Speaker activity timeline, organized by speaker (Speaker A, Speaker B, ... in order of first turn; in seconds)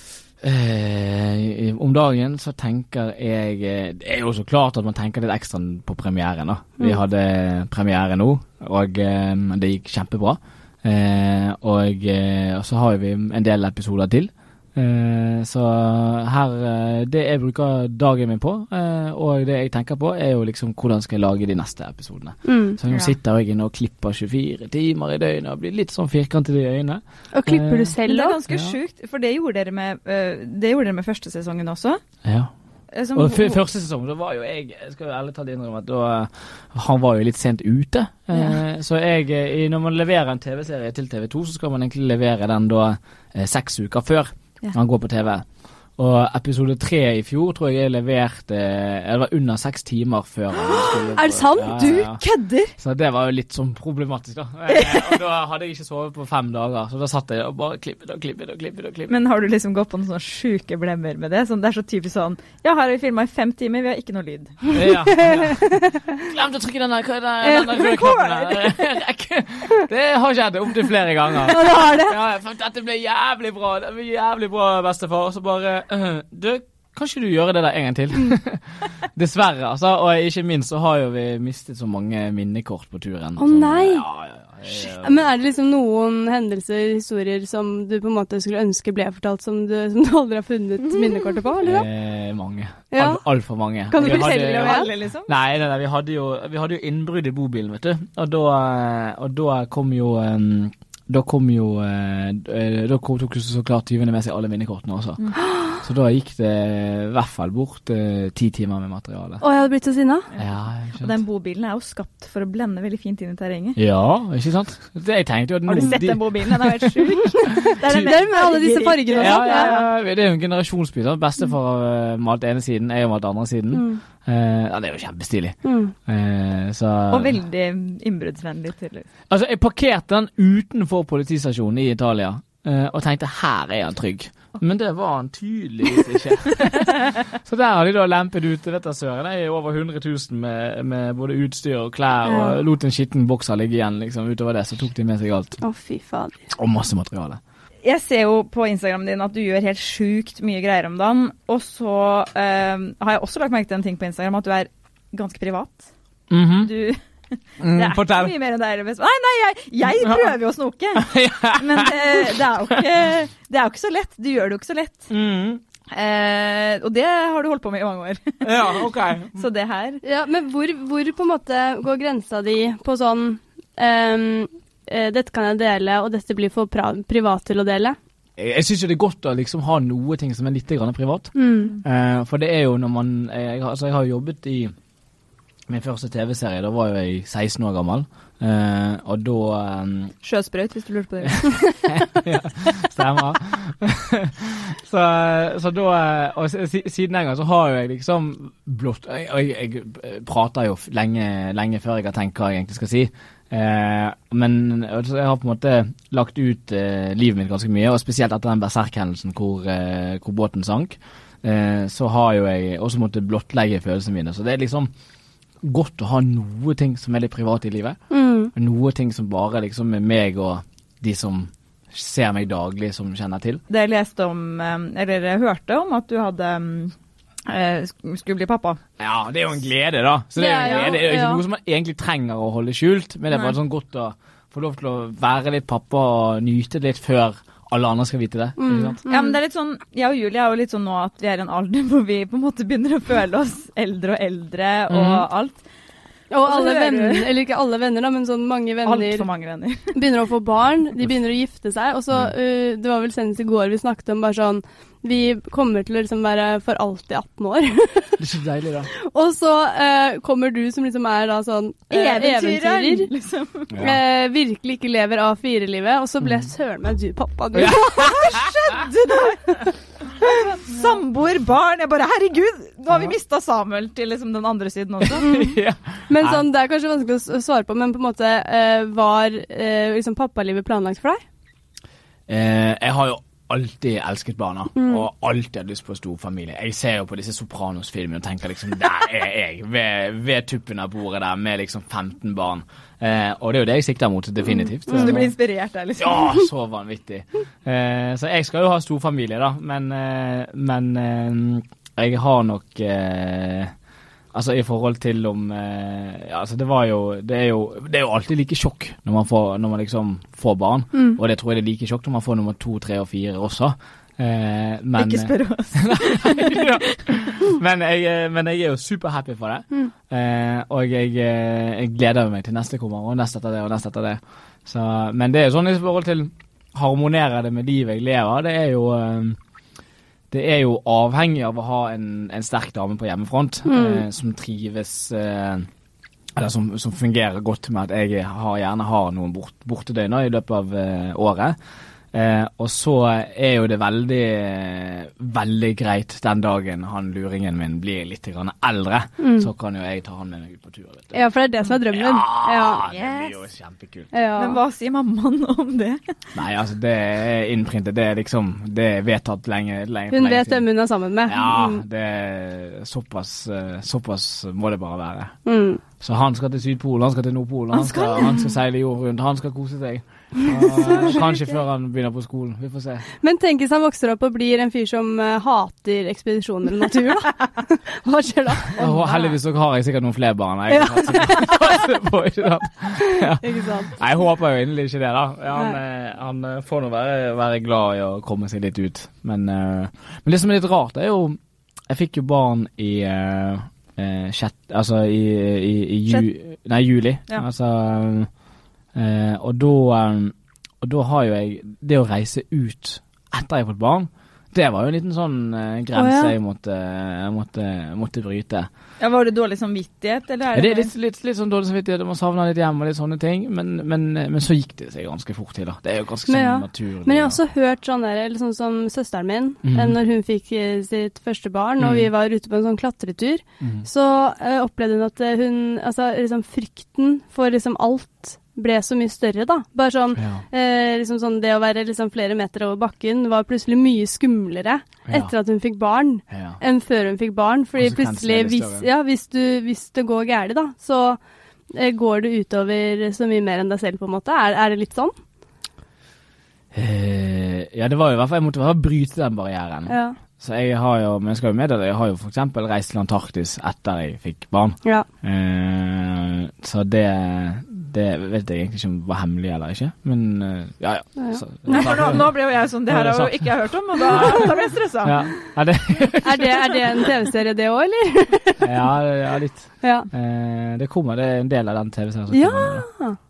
Speaker A: 0.4-27.9, 28.5-28.8, 32.2-32.5, 33.1-45.5, 46.0-52.2, 52.8-59.1, 64.7-85.2, 91.6-109.4, 110.4-111.1, 113.8-117.3, 117.8-118.2, 119.1-127.3, 129.3-145.6, 146.5-147.4, 156.3-156.7, 157.6-158.3, 160.0-160.3, 160.9-162.8, 165.1-165.6, 168.4-169.4, 178.4-184.7, 185.7-190.1, 191.9-214.9, 215.6-218.0, 218.5-223.6, 229.0-239.0, 244.9-245.2, 258.2-258.9, 263.7-264.0, 267.5-268.5, 275.0-276.4, 282.3-295.3, 296.0-303.7, 304.3-329.4, 330.3-335.7, 336.3-341.6, 342.1-351.2, 351.9-354.1, 356.3-360.6, 361.2-365.4, 366.0-373.1, 378.7-398.3, 398.9-408.7, 410.5-417.4, 419.6-420.0, 421.8-422.1, 423.6-423.9, 430.1-430.4, 435.1-435.3, 436.3-436.6, 437.8-438.9, 446.7-464.5, 465.0-467.1, 468.6-472.9
Speaker B: 22.4-22.8, 27.3-28.4, 51.1-52.1, 65.2-66.2, 67.5-68.1, 71.5-72.1, 83.4-84.0, 84.7-91.9, 92.9-94.9, 109.4-110.3, 117.8-119.8, 123.7-124.0, 125.6-125.9, 142.2-142.6, 145.6-146.3, 170.0-178.0, 181.3-181.7, 218.1-218.5, 230.4-231.4, 238.6-239.3, 246.3-249.3, 249.8-258.2, 259.0-263.1, 263.8-268.4, 275.2-281.2, 284.8-285.0, 310.9-311.2, 333.7-334.0, 349.2-349.5, 351.1-352.8, 354.1-354.6, 360.1-361.8, 365.4-365.8, 370.4-371.1, 373.2-378.9, 380.7-381.6, 383.2-383.9, 405.9-406.3, 416.3-441.2, 441.7-445.1, 449.9-450.2, 461.2-461.9, 466.2-468.7, 469.8-470.1, 472.3-473.2
Speaker C: 22.9-23.1, 28.0-32.0, 32.9-33.6, 52.2-52.7, 54.7-55.0, 59.1-64.8, 93.9-95.3, 110.3-113.8, 115.7-119.8, 127.1-129.1, 147.8-155.9, 156.6-157.0, 157.6-165.1, 165.9-170.0, 190.2-191.9, 223.7-226.9, 227.4-228.8, 239.1-245.6, 246.4-247.3, 248.8-249.9, 261.9-263.7, 267.8-269.4, 270.6-275.3, 294.9-296.4, 314.9-316.7, 352.9-353.4, 354.4-356.3, 367.7-368.4, 378.8-379.3, 409.0-410.9, 461.7-465.3